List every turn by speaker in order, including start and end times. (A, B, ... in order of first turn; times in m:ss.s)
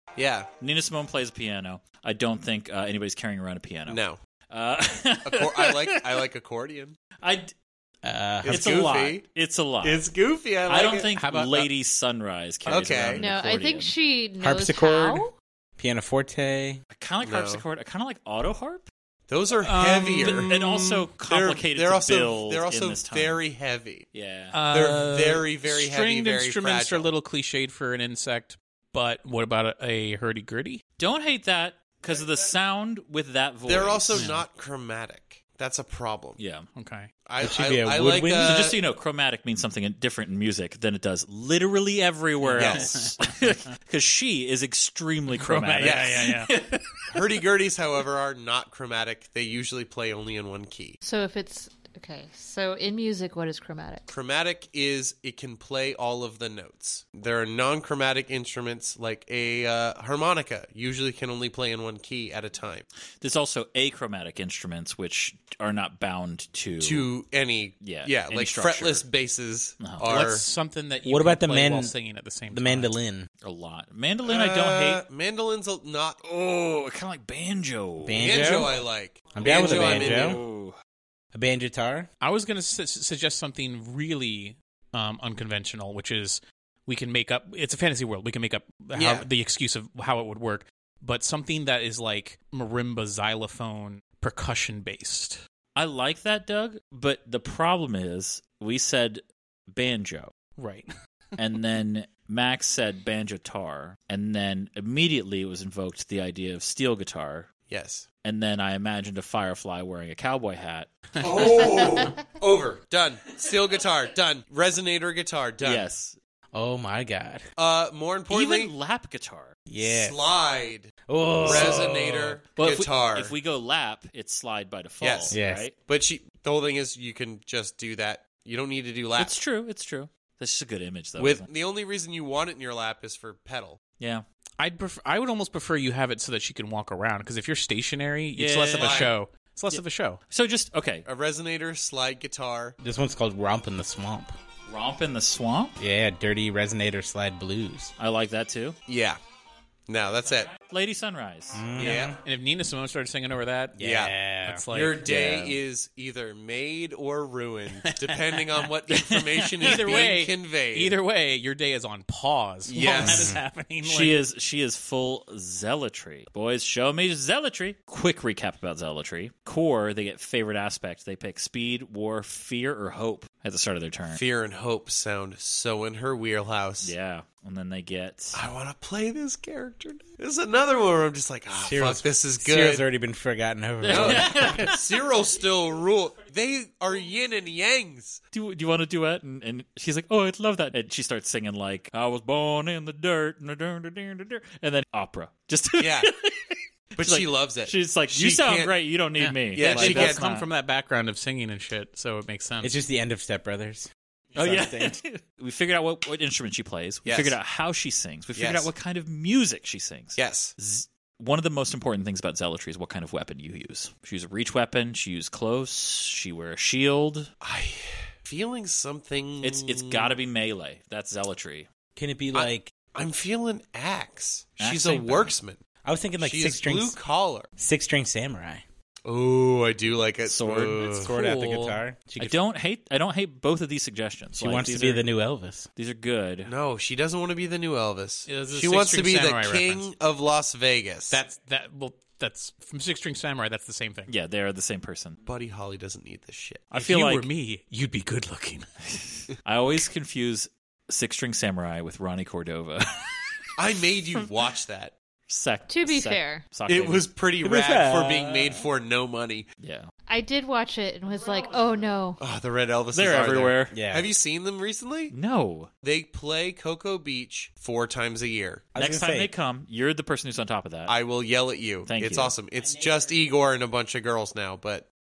0:00.2-0:00.5 A
0:00.6-0:06.2 B
0:03.9-0:04.2 A
0:05.2-0:07.0 A
0:07.2-0:07.5 B
0:08.0-0:08.9 C
0:08.4-0:09.3 A
0:08.5-0:10.0 B
0:09.8-0:11.1 A
0:10.7-0:13.9 B
0:11.2-0:11.7 D
0:12.7-0:13.2 A
0:13.2-0:15.3 E
0:14.4-0:15.3 C
0:15.8-0:16.8 C
0:16.9-0:18.9 B
0:17.2-0:17.6 A
0:19.3-0:20.5 A
0:19.6-0:21.1 D
0:20.2-0:23.4 B
0:21.2-0:24.1 A
0:24.1-0:24.6 B
0:24.5-0:30.8 D
0:24.7-0:27.1 A
0:31.0-0:34.4 B
0:33.6-0:36.4 A
0:36.4-0:36.7 B
0:36.8-0:37.1 D
0:37.3-0:38.8 A
0:37.4-0:38.7 C
0:38.3-0:47.0 B
0:42.4-0:43.5 D
0:42.6-0:43.1 A
0:45.3-0:46.6 D
0:45.8-0:46.2 A
0:47.1-0:51.0 A
0:51.0-0:54.1 E
0:54.1-1:02.9 A
1:03.2-1:07.1 B
1:06.8-1:10.4 A
1:07.8-1:09.1 B
1:09.8-1:10.1 B
1:10.1-1:12.9 D
1:11.0-1:11.9 C
1:12.5-1:13.3 C
1:13.4-1:15.0 B
1:14.2-1:16.2 A
1:16.2-1:18.7 B
1:18.0-1:18.8 C
1:18.2-1:20.4 A
1:19.3-1:20.4 C
1:19.4-1:20.8 B
1:21.3-1:22.1 C
1:22.2-1:35.4 D
1:29.0-1:29.3 A
1:35.8-1:40.3 B
1:40.6-1:40.9 D
1:41.4-1:47.5 B
1:47.7-1:48.1 A
1:48.2-1:50.9 B
1:51.2-1:55.9 A
1:51.3-1:51.8 D
1:55.6-1:56.2 B
1:56.5-1:57.4 C
1:57.6-1:58.7 A
1:58.3-1:59.6 B
1:59.7-2:00.2 C
1:59.8-2:03.3 A
2:01.1-2:02.4 C
2:01.5-2:01.8 B
2:02.5-2:05.8 B
2:05.0-2:09.4 A
2:05.3-2:05.7 C
2:09.2-2:11.5 B
2:11.2-2:13.8 A
2:14.0-2:14.2 B
2:14.6-2:20.2 D
2:18.4-2:19.1 B
2:18.7-2:19.1 A
2:19.7-2:21.1 B
2:21.0-2:22.8 A
2:22.8-2:24.4 C
2:24.7-2:25.8 B
2:25.8-2:27.9 C
2:28.0-2:28.8 B
2:28.9-2:29.2 A
2:29.9-2:30.5 A
2:30.5-2:31.7 B
2:31.5-2:32.2 C
2:31.8-2:32.2 A
2:31.8-2:33.8 D
2:33.8-2:34.6 C
2:33.8-2:34.2 A
2:34.4-2:35.1 D
2:34.7-2:41.0 A
2:35.0-2:35.6 B
2:37.8-2:38.7 D
2:38.9-2:40.1 B
2:39.6-2:44.2 D
2:42.7-2:43.4 A
2:43.0-2:43.4 C
2:43.8-2:54.2 B
2:54.1-2:56.9 A
2:56.8-2:58.4 B
2:58.3-3:02.9 A
3:01.6-3:04.6 C
3:03.8-3:04.7 B
3:03.9-3:08.2 A
3:08.3-3:20.5 B
3:15.8-3:16.1 A
3:17.0-3:18.8 A
3:19.2-3:22.7 D
3:19.5-3:20.3 A
3:22.6-3:25.0 C
3:24.3-3:24.6 D
3:24.4-3:37.3 B
3:27.0-3:27.4 A
3:28.4-3:28.7 A
3:30.2-3:30.6 A
3:37.4-3:40.2 A
3:39.4-3:41.7 B
3:42.0-3:42.7 C
3:42.3-3:45.6 A
3:44.6-3:45.3 B
3:45.8-3:47.0 C
3:46.2-3:47.5 A
3:47.6-3:48.6 C
3:49.1-3:51.8 A
3:50.3-3:51.1 B
3:50.8-3:52.4 C
3:52.2-3:55.0 B
3:54.3-3:55.7 C
3:55.8-3:56.5 B
3:56.4-4:01.2 A
3:58.3-3:59.9 D
4:01.1-4:04.1 D
4:04.1-4:05.2 B
4:05.2-4:06.6 A
4:06.7-4:08.7 D
4:06.7-4:07.3 B
4:08.9-4:13.2 B
4:13.6-4:14.9 A
4:15.3-4:17.1 B
4:15.7-4:16.6 E
4:16.7-4:19.5 A
4:17.4-4:18.7 C
4:19.6-4:19.9 B
4:20.1-4:22.2 E
4:21.1-4:21.9 B
4:22.2-4:25.1 A
4:22.9-4:23.8 B
4:23.7-4:24.1 C
4:25.1-4:25.7 B
4:25.8-4:28.7 A
4:28.7-4:29.3 C
4:28.8-4:31.0 B
4:30.9-4:34.9 A
4:31.8-4:32.4 B